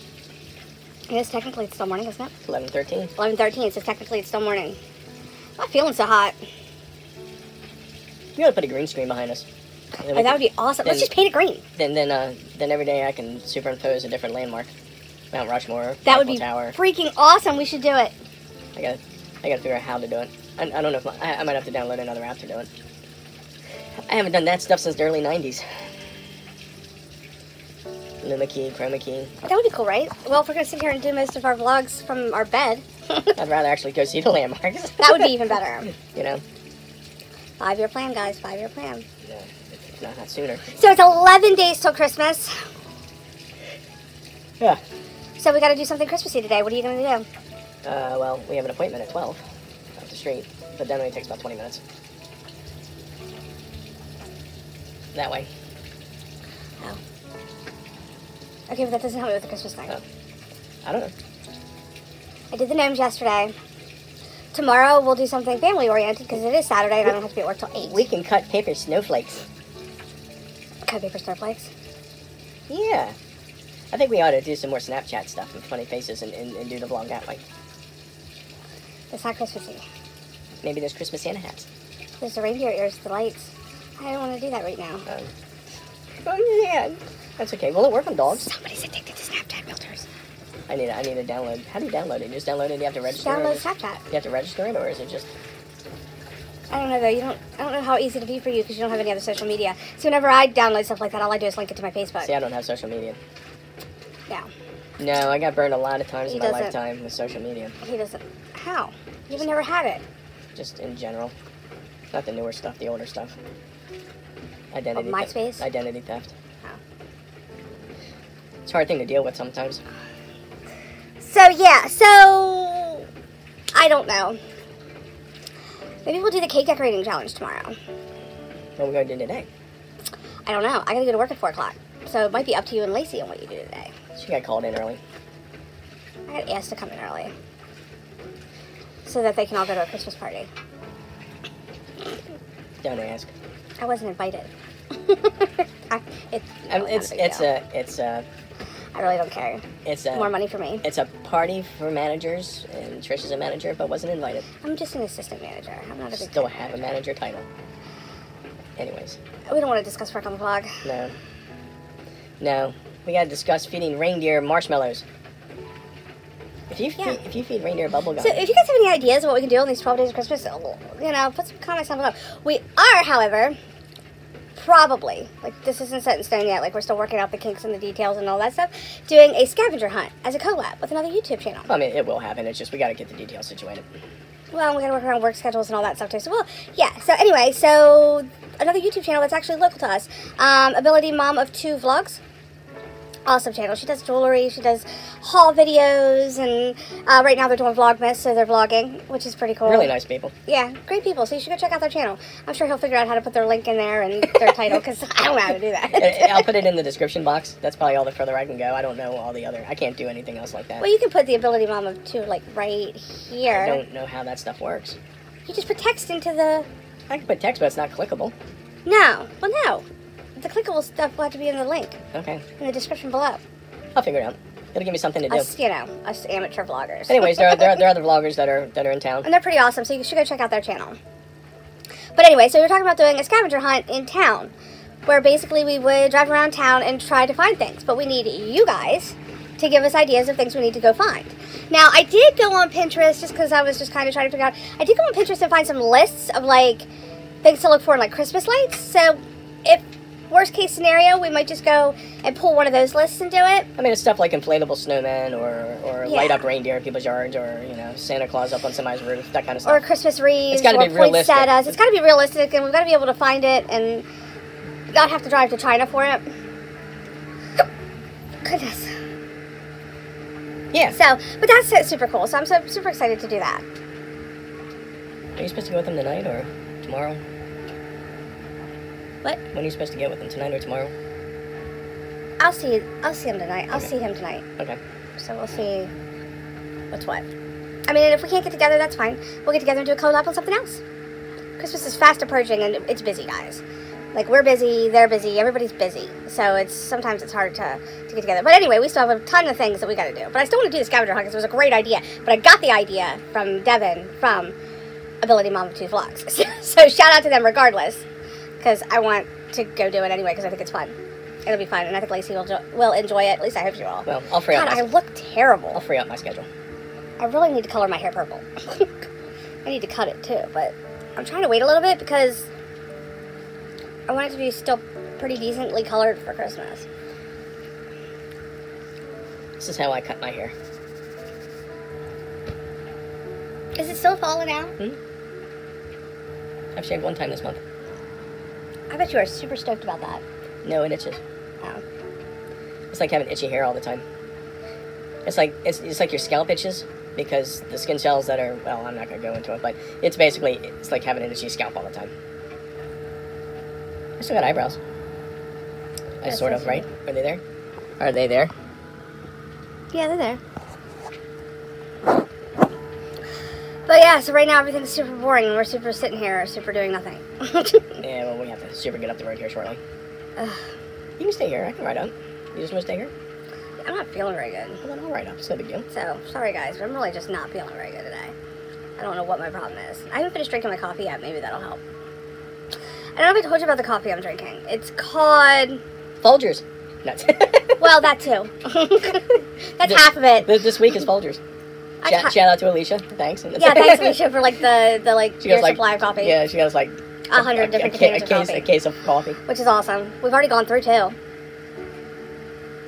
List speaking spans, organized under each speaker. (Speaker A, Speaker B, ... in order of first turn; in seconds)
Speaker A: 1.1-2.3, 3.2-4.8, 5.6-6.4, 10.1-11.6, 16.1-18.1, 29.4-33.3, 35.0-35.9, 37.6-39.0, 40.7-42.6, 45.4-47.3, 58.7-60.0, 62.5-63.5, 64.5-68.1, 70.9-71.7, 79.1-79.8, 82.2-85.0, 88.3-90.1, 93.1-94.0, 96.7-102.3, 106.3-106.8, 107.8-110.0, 115.0-115.7, 121.2-123.1, 123.8-124.4, 126.0-127.8, 130.5-133.9, 136.3-137.3, 139.1-140.5, 143.8-144.5, 145.1-147.5, 148.9-150.8, 154.6-156.5, 159.5-160.8, 168.2-173.6, 174.6-181.7, 184.5-192.2, 193.3-199.9, 200.5-206.5, 210.8-213.8, 215.5-216.7, 218.9-219.8, 220.4-222.0, 222.6-223.4, 225.3-227.9, 229.2-231.0, 232.2-234.5, 235.1-246.9, 247.4-253.7, 256.0-256.5, 259.6-264.1, 264.9-266.2, 268.4-268.9, 270.9-273.6, 282.4-284.4, 285.2-285.9, 286.9-287.2, 287.9-290.8, 291.6-293.6, 294.1-304.6, 305.2-308.0, 308.6-315.8, 317.2-318.9, 319.6-322.5, 324.1-326.9, 333.8-334.8, 338.9-340.2, 356.3-356.9, 359.9-360.4, 363.9-368.0, 370.4-370.6, 373.8-374.8, 375.9-378.3, 379.0-381.8, 383.2-385.8, 387.8-390.6, 392.0-392.4, 393.6-396.4, 397.3-398.7, 399.5-401.1
Speaker B: 2.4-3.1, 8.4-9.4, 10.0-11.1, 11.8-14.7, 15.3-16.8, 18.8-22.7, 24.1-25.6, 28.2-29.3, 33.4-35.4, 36.0-36.4, 39.2-40.7, 47.9-49.4, 50.0-51.8, 55.1-55.5, 60.9-61.1, 67.8-69.5, 72.7-73.2, 73.9-77.4, 80.6-81.7, 86.2-88.5, 90.7-95.3, 102.2-103.2, 105.0-107.8, 110.5-111.3, 112.1-113.3, 114.7-116.3, 118.7-119.8, 128.8-129.5, 134.2-135.0, 142.8-143.3, 146.7-148.3, 149.8-154.5, 156.1-157.4, 158.8-159.2, 160.8-161.2, 162.4-165.0, 166.7-168.5, 181.7-183.9, 199.7-200.3, 205.9-210.9, 213.5-215.0, 217.1-218.3, 222.1-222.4, 223.9-225.5, 227.1-229.3, 253.8-259.8, 260.5-261.7, 270.7-271.0, 275.4-277.2, 279.5-280.9, 314.1-314.9, 315.7-316.5, 329.6-330.5, 336.8-337.6, 340.6-341.2, 342.9-344.0, 345.3-352.1, 354.2-354.8, 356.2-357.4, 358.0-358.5, 368.0-369.8, 371.2-373.1, 374.8-375.9, 386.2-387.8, 389.8-391.4, 392.0-394.2, 395.4-399.4